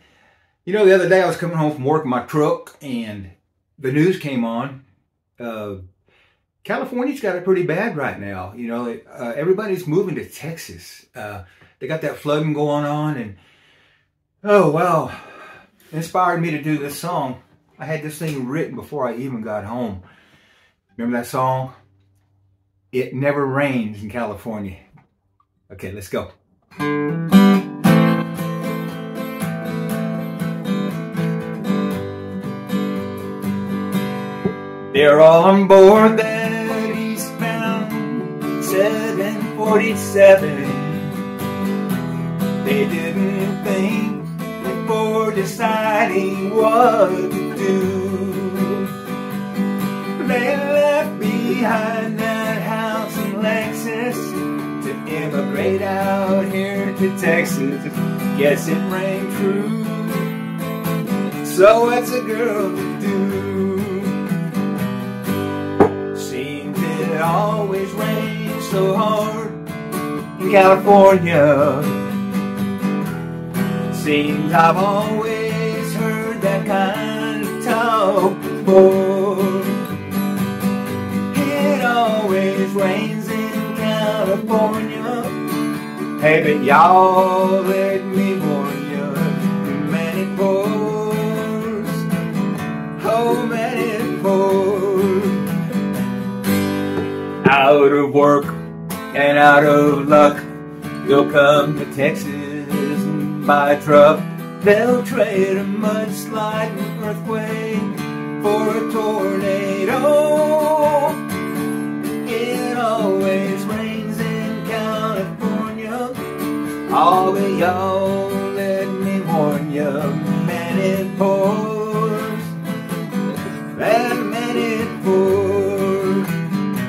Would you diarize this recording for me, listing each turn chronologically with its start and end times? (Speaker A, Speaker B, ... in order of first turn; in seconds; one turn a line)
Speaker A: 0.6-4.8
Speaker A: 5.4-5.8
Speaker A: 6.6-13.4
Speaker A: 14.4-20.0
Speaker A: 21.0-21.7
Speaker A: 22.9-24.8
Speaker A: 25.7-26.3
Speaker A: 34.9-41.2
Speaker A: 42.6-48.9
Speaker A: 50.2-60.4
Speaker A: 61.4-64.3
Speaker A: 66.1-69.6
Speaker A: 70.3-72.1
Speaker A: 73.9-79.9
Speaker A: 81.3-85.4
Speaker A: 86.2-92.1
Speaker A: 93.0-95.6
Speaker A: 97.4-98.6
Speaker A: 99.1-100.4
Speaker A: 101.0-111.3
Speaker A: 112.2-116.3
Speaker A: 116.9-122.5
Speaker A: 123.7-126.3